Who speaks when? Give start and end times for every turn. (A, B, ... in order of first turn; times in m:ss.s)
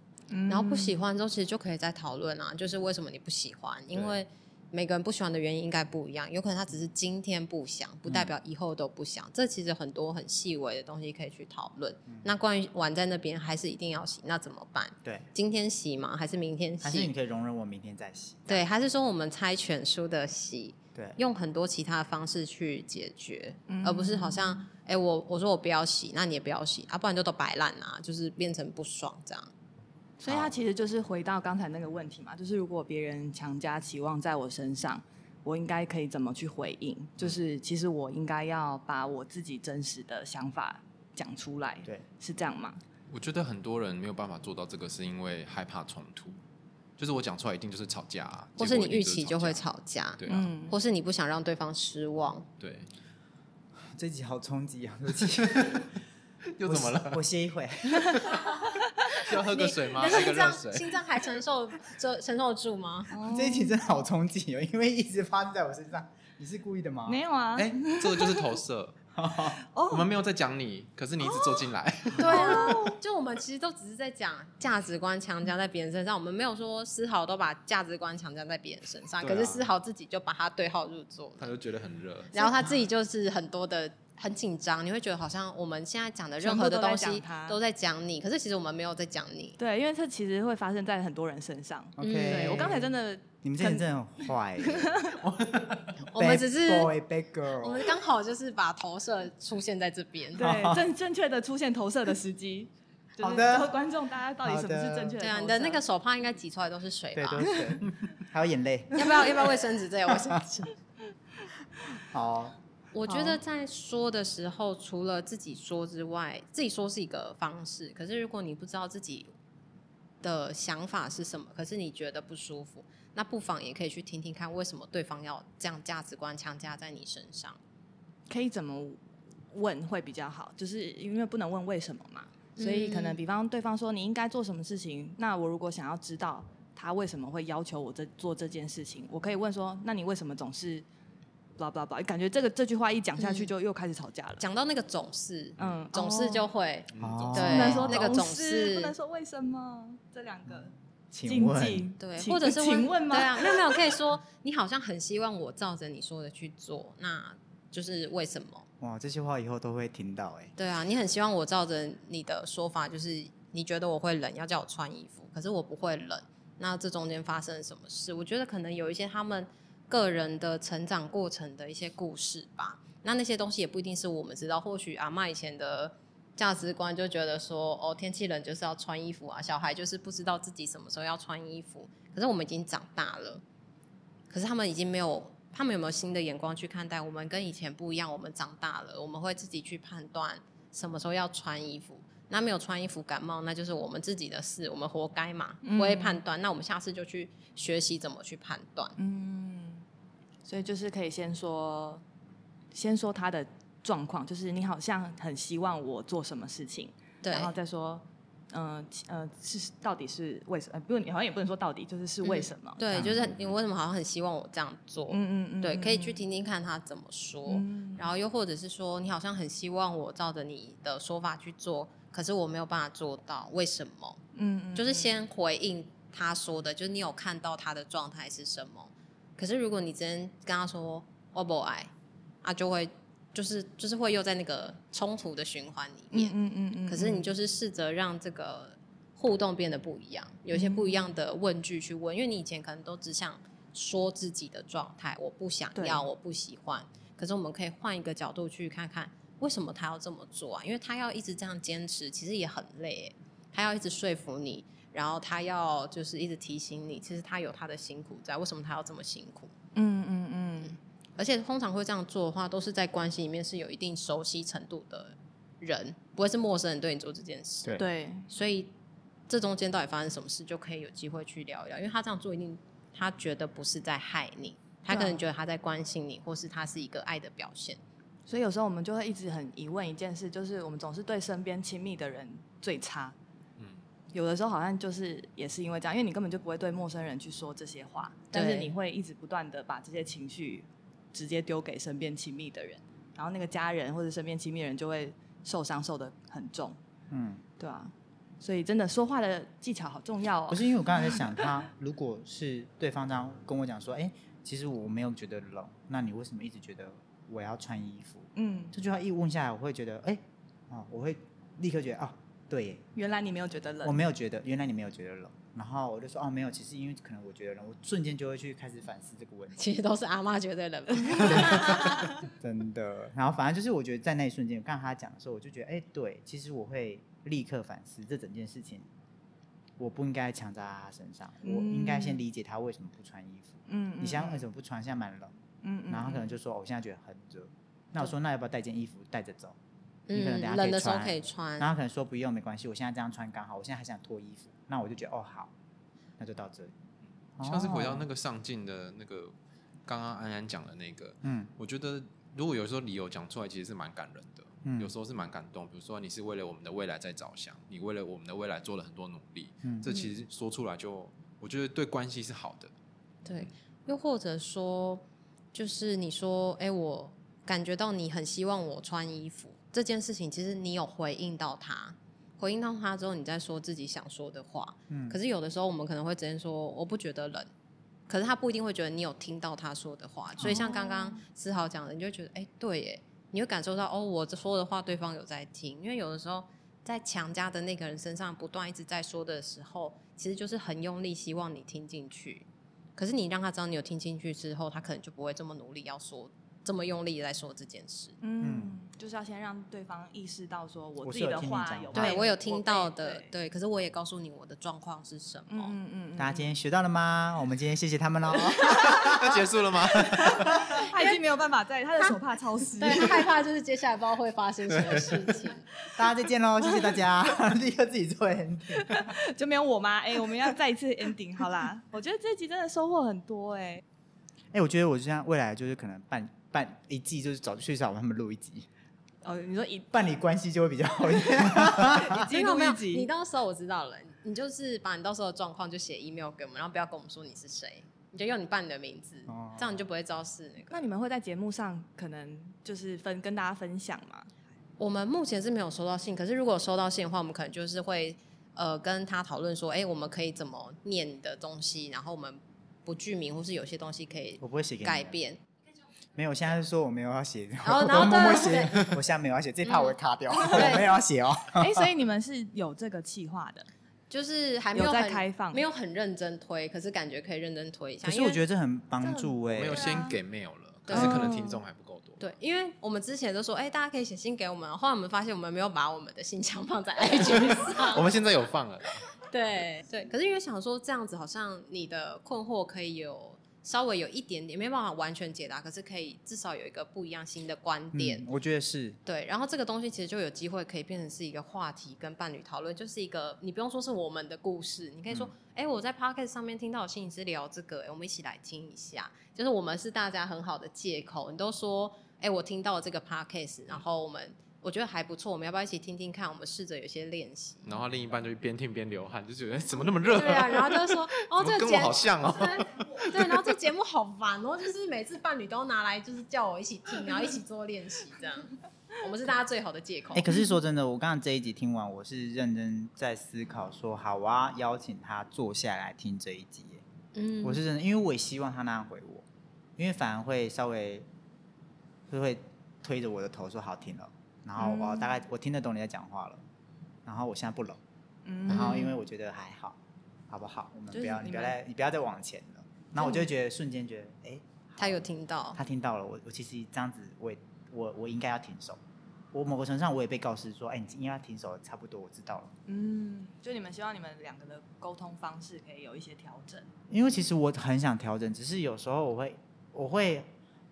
0:00.3-0:01.0 A
0:00.5-0:17.1 B
0:16.8-0:18.6 C
0:18.5-0:29.5 B
0:23.7-0:24.6 A
0:30.2-0:42.8 A
0:30.3-0:30.6 C
0:43.1-0:46.4 D
0:47.0-0:49.6 D
0:48.6-0:52.5 B
0:50.2-0:50.5 D
0:50.3-0:50.8 A
0:52.6-0:52.9 D
0:54.0-0:55.8 C
0:55.6-0:55.8 D
0:56.6-0:57.2 D
0:56.6-0:58.2 C
0:59.1-1:00.9 D
0:59.5-1:03.2 B
1:03.1-1:03.7 A
1:03.3-1:07.2 C
1:07.1-1:08.5 A
1:07.6-1:09.0 D
1:09.1-1:09.6 C
1:09.7-1:10.1 A
1:09.9-1:12.9 D
1:11.2-1:13.0 A
1:12.2-1:21.5 B
1:19.2-1:19.6 D
1:21.4-1:22.7 D
1:22.3-1:29.6 B
1:26.4-1:27.6 A
1:29.6-1:33.9 A
1:32.0-1:37.9 C
1:32.0-1:32.7 B
1:34.6-1:35.2 A
1:36.1-1:36.9 B
1:37.6-1:40.5 B
1:40.4-1:45.8 A
1:40.4-1:40.9 C
1:43.2-1:43.7 C
1:44.4-1:45.2 C
1:45.2-1:47.6 B
1:47.1-1:49.4 C
1:47.5-1:47.8 A
1:49.0-1:50.7 B
1:50.1-1:50.4 C
1:52.0-1:52.6 C
1:52.9-1:59.3 B
1:53.1-1:53.4 A
2:00.2-2:07.6 B
2:08.3-2:09.0 A
2:09.5-2:20.8 A
2:12.6-2:13.2 B
2:21.6-2:24.4 A
2:23.2-2:23.5 B
2:24.4-2:29.0 B
2:25.6-2:26.5 A
2:26.9-2:28.0 D
2:27.0-2:28.1 C
2:27.4-2:30.7 A
2:31.1-2:31.9 C
2:31.3-2:33.8 A
2:32.0-2:38.7 B
2:38.8-2:40.5 C
2:40.6-3:03.4 B
3:04.3-3:19.0 B
3:15.6-3:16.2 A
3:19.0-3:19.8 A
3:20.4-3:22.0 A
3:22.7-3:33.1 A
3:27.2-3:27.5 B
3:32.2-3:44.2 B
3:32.9-3:33.2 C
3:35.1-3:36.2 A
3:37.5-3:38.1 A
3:44.4-3:45.1 A
3:44.8-3:51.9 B
3:52.4-3:56.4 B
3:56.1-3:57.3 A
3:56.9-4:19.5 B
4:00.5-4:01.0 A
4:05.8-4:06.0 A
4:19.8-4:20.8 A
4:21.2-4:28.7 B
4:27.8-4:28.3 A
4:29.3-4:37.8 B
4:34.9-4:35.2 A
4:38.3-4:43.1 A
4:44.1-4:56.8 A
4:48.3-4:48.7 B
4:57.1-4:57.4 C
4:57.6-5:01.5 A
5:00.5-5:12.8 C
5:08.4-5:08.7 A
5:13.0-5:14.0 A
5:13.8-5:19.6 C
5:19.6-5:22.0 B
5:21.2-5:28.9 C
5:21.3-5:22.1 A
5:29.8-5:35.3 C
5:31.4-5:32.2 A
5:33.7-5:34.4 A
5:35.6-5:36.3 A
5:35.9-5:39.6 C
5:40.1-5:41.7 B
5:40.1-5:45.5 C
5:46.2-5:46.7 C
5:47.4-5:48.1 C
5:47.4-5:49.3 D
5:49.9-6:02.7 D
5:51.2-5:51.5 C
5:54.6-5:54.9 C
5:59.9-6:00.1 B
6:03.2-6:17.5 B
6:14.9-6:15.2 C
6:18.1-6:38.2 B
6:20.4-6:21.2 A
6:38.2-6:43.3 A
6:38.4-6:38.8 C
6:41.0-6:42.2 C
6:41.9-6:45.8 B
6:45.5-6:46.5 A
6:46.2-6:49.4 C
6:48.8-6:50.5 D
6:50.0-6:50.8 C
6:50.1-6:53.3 A
6:50.8-6:51.2 B
6:52.8-6:55.6 B
6:54.7-6:55.4 D
6:56.0-6:59.0 C
6:58.8-7:03.8 A
7:04.5-7:08.7 C
7:09.2-7:10.0 A
7:09.9-7:12.3 C
7:11.6-7:13.1 A
7:12.2-7:20.8 B
7:19.3-7:19.8 C
7:20.7-7:24.3 A
7:24.8-7:35.4 B
7:34.4-7:35.1 C
7:36.2-7:41.9 C
7:37.6-7:38.9 B
7:39.6-7:40.9 B
7:40.4-7:40.8 A
7:41.6-7:43.7 A
7:44.1-7:48.4 B
7:44.7-7:45.6 A
7:48.0-7:50.1 C
7:49.0-7:50.2 A
7:49.5-7:52.3 D
7:50.9-7:51.3 B
7:50.9-7:51.6 A
7:52.2-7:58.1 B
7:57.6-7:59.1 D
7:59.3-8:08.2 B
8:07.9-8:09.0 C
8:09.0-8:27.7 B
8:27.6-8:33.4 D
8:30.1-8:40.3 B
8:40.1-8:46.8 C
8:47.2-8:47.6 B
8:47.4-8:49.2 C
8:49.8-8:51.1 C
8:52.1-8:56.4 C
8:54.6-8:55.1 A
8:57.0-8:57.8 C
8:58.2-8:59.0 A
8:58.5-9:05.0 C
8:58.5-8:58.9 B
9:00.9-9:01.5 A
9:03.0-9:03.3 A
9:04.8-9:05.6 B
9:05.5-9:08.8 C
9:09.3-9:12.5 C
9:12.7-9:16.7 A
9:16.9-9:20.3 C